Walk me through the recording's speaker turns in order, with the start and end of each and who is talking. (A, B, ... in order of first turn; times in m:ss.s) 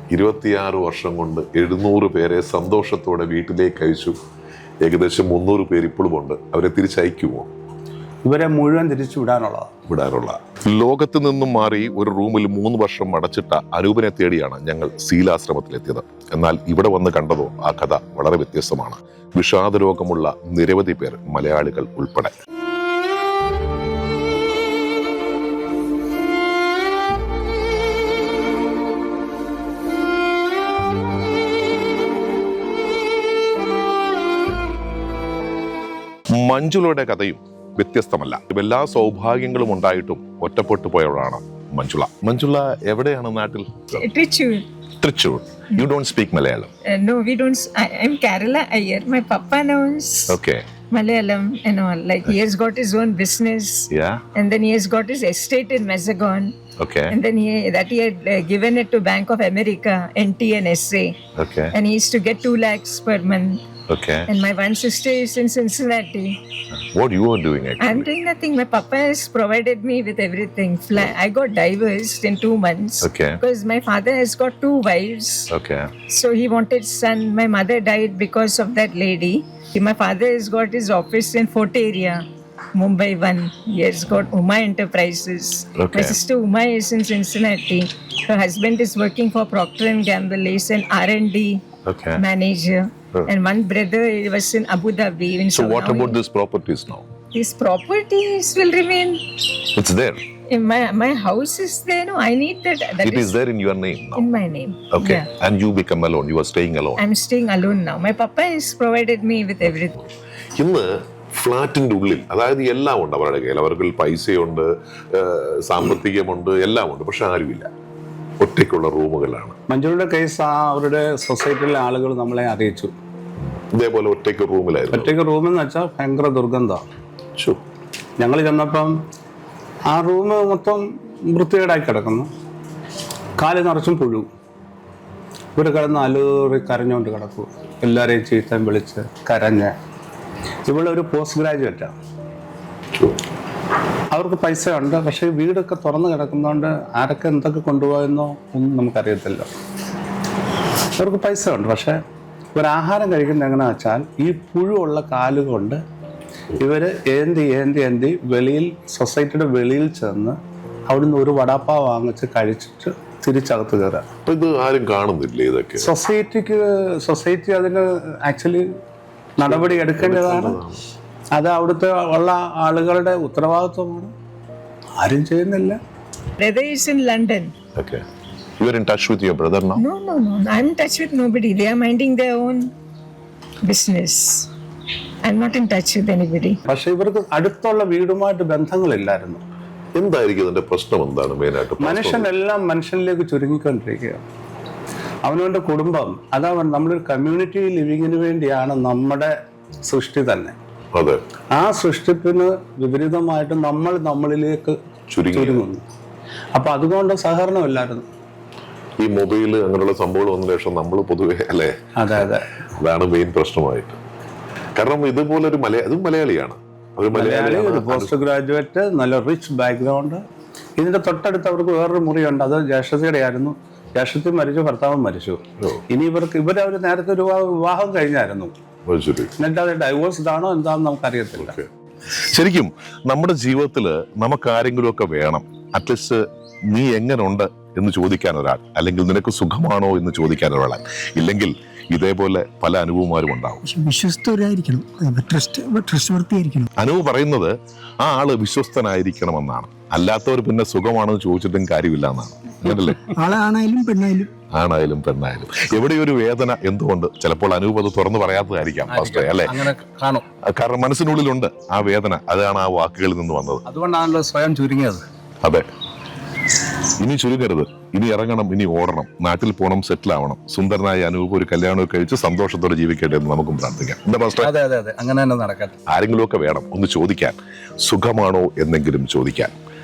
0:00.1-0:04.2 A
0:04.8-0:07.5 A
0:08.3-0:09.7 B
0:09.9-0:22.4 A
0:36.3-0:44.0 A
0:44.0-0:44.7 C
0:45.0-0:46.7 A
0:46.9-0:50.4 C
0:50.3-0:50.7 A
0:50.9-0:56.6 C
0:53.9-0:54.2 A
0:56.8-0:57.2 A
0:57.1-1:01.2 C
1:01.4-1:01.7 A
1:01.7-1:03.6 C
1:03.9-1:04.3 A
1:04.3-1:06.4 C
1:06.8-1:08.1 A
1:07.8-1:15.5 C
1:13.0-1:13.4 A
1:15.5-1:15.9 A
1:16.1-1:22.2 C
1:22.8-1:31.6 C
1:25.8-1:26.2 A
1:31.9-1:32.2 A
1:32.2-1:36.2 C
1:35.5-1:37.1 A
1:37.3-1:39.2 C
1:39.8-1:40.2 A
1:40.5-1:43.4 C
1:43.0-1:44.2 A
1:44.2-1:45.3 C
1:44.9-1:47.0 A
1:47.0-1:50.0 C
1:49.6-1:57.7 A
1:58.4-1:59.6 A
1:59.7-2:02.9 B
2:03.7-2:05.2 A
2:04.9-2:06.8 B
2:08.2-2:09.0 B
2:09.9-2:12.3 B
2:13.4-2:14.3 B
2:15.6-2:19.7 B
2:20.7-2:22.0 B
2:24.1-2:29.5 B
2:31.0-2:32.0 B
2:32.6-2:35.8 B
2:36.6-2:40.4 B
2:40.9-2:44.1 B
2:44.3-2:45.9 A
2:45.8-2:48.7 B
2:49.4-2:50.6 B
2:49.5-2:50.8 A
2:51.4-2:54.1 B
2:55.0-2:55.8 B
2:56.4-2:57.5 C
2:57.8-2:58.0 A
2:58.6-2:59.8 A
2:59.8-3:02.7 C
3:03.6-3:04.5 C
3:05.2-3:06.6 C
3:06.7-3:09.4 B
3:10.0-3:12.3 A
3:11.8-3:14.2 B
3:15.2-3:20.6 B
3:20.9-3:21.2 A
3:21.5-3:24.8 B
3:25.1-3:25.6 A
3:25.3-3:25.8 B
3:26.6-3:28.0 B
3:29.0-3:34.0 A
3:32.0-3:32.5 B
3:34.8-3:38.1 A
3:37.1-3:40.2 B
3:40.8-3:48.5 B
3:48.9-3:49.3 A
3:49.4-3:51.6 B
3:51.4-3:51.7 A
3:52.3-4:03.6 A
4:03.6-4:06.7 D
4:06.8-4:13.1 A
4:13.1-4:14.3 D
4:14.5-4:19.5 A
4:18.9-4:20.2 B
4:20.5-4:23.6 A
4:23.7-4:25.0 B
4:27.0-4:34.5 A
4:34.4-4:35.8 B
4:35.9-4:39.5 A